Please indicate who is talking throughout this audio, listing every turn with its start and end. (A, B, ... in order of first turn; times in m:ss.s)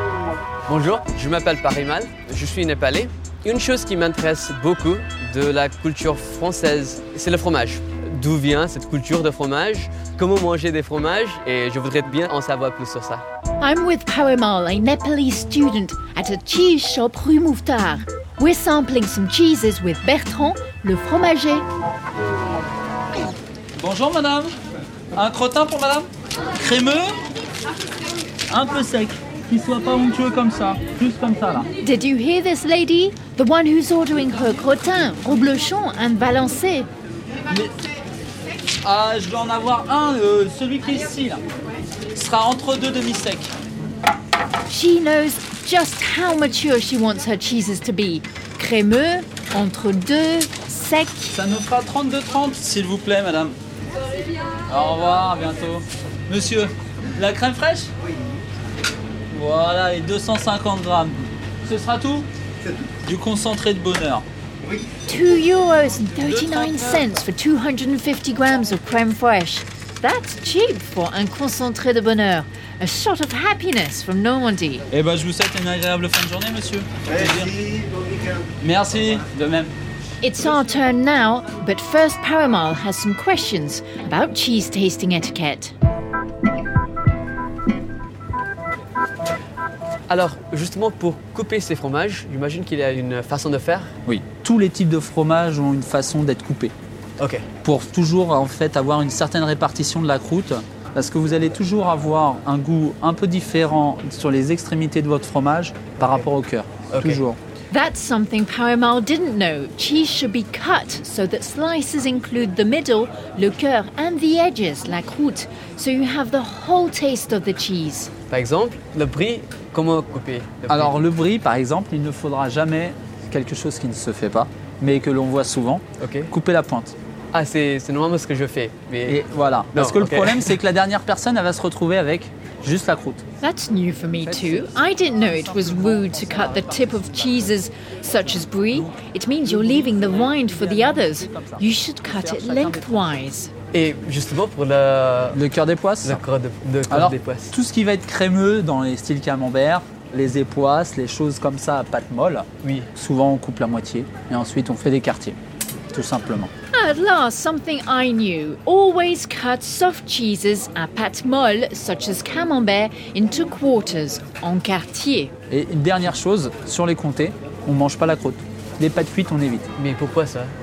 0:00.7-0:13.2 A
0:13.6-0:21.6 B
0:23.8-0:24.5 C
0:25.1-0:27.2 C
0:28.5-0:31.7 C
0:31.8-0:36.9 B
0:37.5-0:37.8 C
0:38.8-0:41.4 C
0:42.1-0:43.5 C
0:44.7-0:51.4 B
0:51.3-0:53.6 C
0:54.7-0:57.9 C
0:59.3-1:02.3 C
1:03.0-1:04.2 C
1:05.0-1:14.9 B
1:06.3-1:07.0 C
1:14.9-1:17.9 C
1:18.6-1:19.7 C
1:20.2-1:25.7 B
1:30.1-1:33.9 A
1:34.1-1:36.7 C
1:37.2-1:37.5 A
1:37.6-1:47.4 C
1:46.0-1:46.3 A
1:46.9-1:47.2 A
1:47.7-1:58.1 B
1:58.3-2:01.0 A
2:00.7-2:07.0 C
2:06.0-2:06.3 A
2:07.3-2:09.2 A
2:09.1-2:13.2 C
2:09.7-2:10.6 A
2:13.4-2:23.5 B
2:14.2-2:17.6 C
2:18.7-2:19.0 C
2:19.5-2:23.1 C
2:23.7-2:25.4 A
2:25.3-2:26.2 C
2:26.0-2:27.6 A
2:26.9-2:35.4 C
2:32.6-2:32.9 A
2:35.9-2:36.5 C
2:36.7-2:45.3 B
2:45.5-2:49.7 C
2:49.8-2:50.5 A